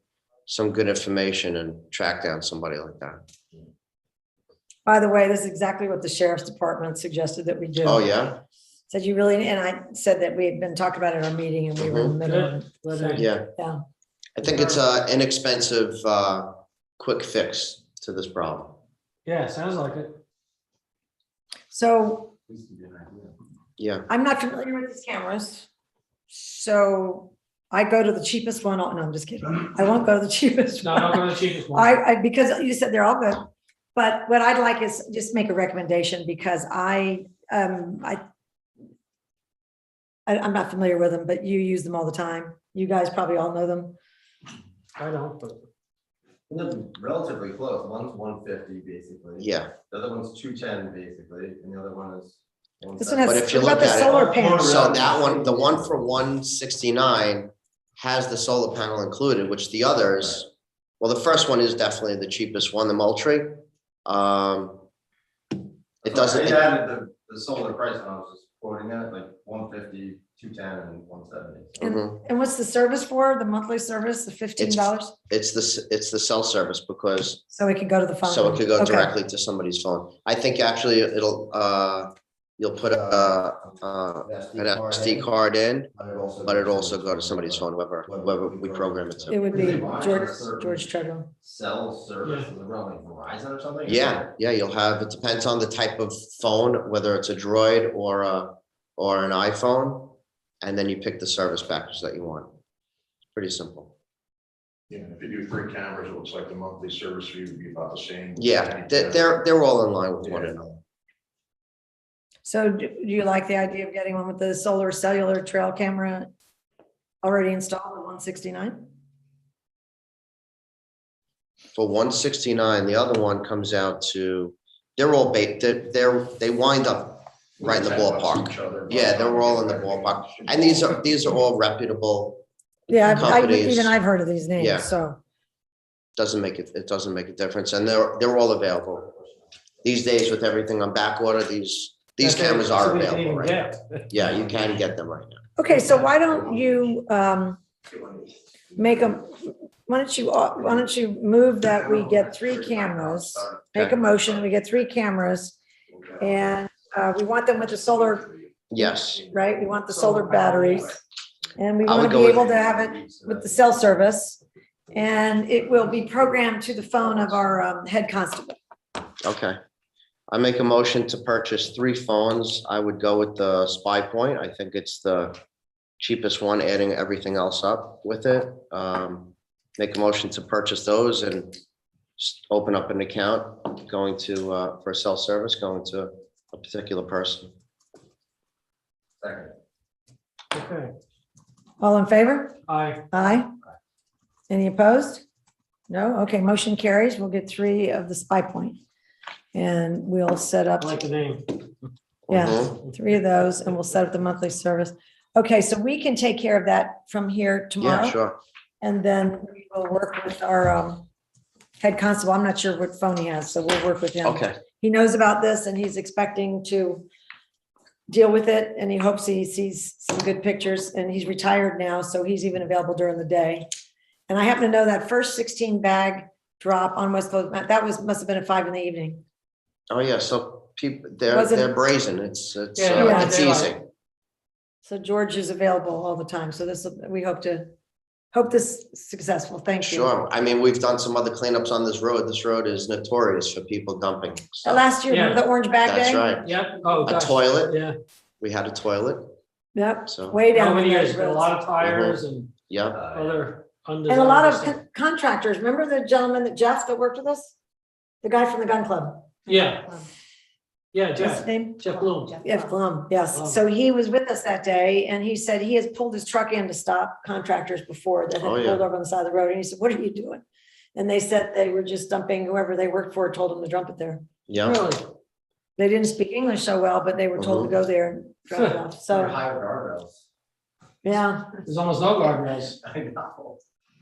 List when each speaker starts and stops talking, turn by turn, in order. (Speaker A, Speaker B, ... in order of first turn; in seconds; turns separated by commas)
Speaker A: 0.5-3.2, Speaker B: 4.8-8.1, Speaker A: 7.8-8.4, Speaker B: 8.9-13.8, Speaker A: 11.8-12.2, Speaker C: 12.2-13.3, Speaker A: 13.1-13.5, Speaker A: 14.3-18.8, Speaker C: 19.2-20.1, Speaker B: 21.7-22.3, Speaker D: 22.5-23.3, Speaker A: 23.8-24.1, Speaker B: 24.1-25.7, Speaker B: 26.3-38.2, Speaker C: 30.8-31.9, Speaker B: 40.3-43.9, Speaker C: 45.0-45.6, Speaker D: 46.5-55.9, Speaker A: 49.4-49.7, Speaker B: 53.0-54.8, Speaker A: 53.3-60.5, Speaker A: 61.0-64.8, Speaker A: 66.0-66.8, Speaker D: 66.0-71.9, Speaker B: 71.8-75.1, Speaker A: 71.8-72.2, Speaker A: 74.6-77.4, Speaker B: 77.5-79.1, Speaker A: 78.2-85.9, Speaker D: 84.2-85.2, Speaker D: 86.0-90.9, Speaker A: 86.5-89.5, Speaker B: 89.3-91.3, Speaker D: 91.4-94.3, Speaker A: 93.8-102.5, Speaker A: 103.3-103.9, Speaker E: 104.9-109.3, Speaker A: 108.3-110.8, Speaker B: 112.4-116.3, Speaker B: 117.2-118.9, Speaker A: 121.7-132.4, Speaker E: 127.6-131.0, Speaker B: 132.9-135.2, Speaker A: 133.0-133.9, Speaker A: 134.6-134.9, Speaker A: 136.2-139.0, Speaker A: 139.8-143.6, Speaker C: 142.2-144.1, Speaker A: 144.1-145.4, Speaker B: 145.6-147.6, Speaker C: 145.8-146.0, Speaker B: 148.8-155.6, Speaker D: 152.0-153.5, Speaker B: 156.2-161.0, Speaker A: 158.7-159.2, Speaker C: 159.9-160.9, Speaker B: 161.6-164.4, Speaker A: 161.8-162.5, Speaker D: 162.5-163.5, Speaker B: 164.9-168.6, Speaker A: 169.2-169.6, Speaker A: 170.3-175.4, Speaker A: 176.0-181.5, Speaker A: 182.2-187.5, Speaker D: 189.2-189.5, Speaker C: 190.5-190.9, Speaker B: 191.8-193.6, Speaker C: 192.7-193.0, Speaker B: 194.5-195.2, Speaker B: 195.9-198.8, Speaker B: 199.5-201.0, Speaker C: 200.8-201.6, Speaker A: 202.3-202.8, Speaker B: 202.3-208.2, Speaker A: 207.8-208.4, Speaker B: 208.8-211.1, Speaker B: 211.8-217.1, Speaker A: 214.2-214.6, Speaker B: 218.1-223.7, Speaker B: 224.3-229.2, Speaker A: 229.9-233.8, Speaker B: 231.3-231.7, Speaker C: 232.8-233.7, Speaker B: 233.0-233.3, Speaker B: 234.8-237.7, Speaker B: 238.3-240.1, Speaker A: 239.8-244.8, Speaker B: 244.6-246.3, Speaker C: 245.1-245.4, Speaker A: 245.8-246.5, Speaker C: 246.4-247.9, Speaker A: 247.0-247.8, Speaker A: 248.4-249.3, Speaker B: 249.7-251.5, Speaker A: 250.1-250.4, Speaker C: 250.5-252.5, Speaker A: 251.8-252.2, Speaker A: 252.7-253.0, Speaker D: 252.9-253.4, Speaker C: 253.1-254.8, Speaker B: 254.1-257.5, Speaker B: 258.2-259.3, Speaker C: 259.4-259.9, Speaker C: 260.9-262.4, Speaker B: 261.2-270.4, Speaker C: 263.3-263.6, Speaker A: 268.4-268.8, Speaker B: 270.9-274.2, Speaker A: 274.5-274.8, Speaker C: 274.6-275.0, Speaker B: 275.8-279.4, Speaker A: 277.4-277.7, Speaker D: 279.1-280.2, Speaker B: 281.0-281.6, Speaker C: 281.6-282.8, Speaker D: 282.8-283.6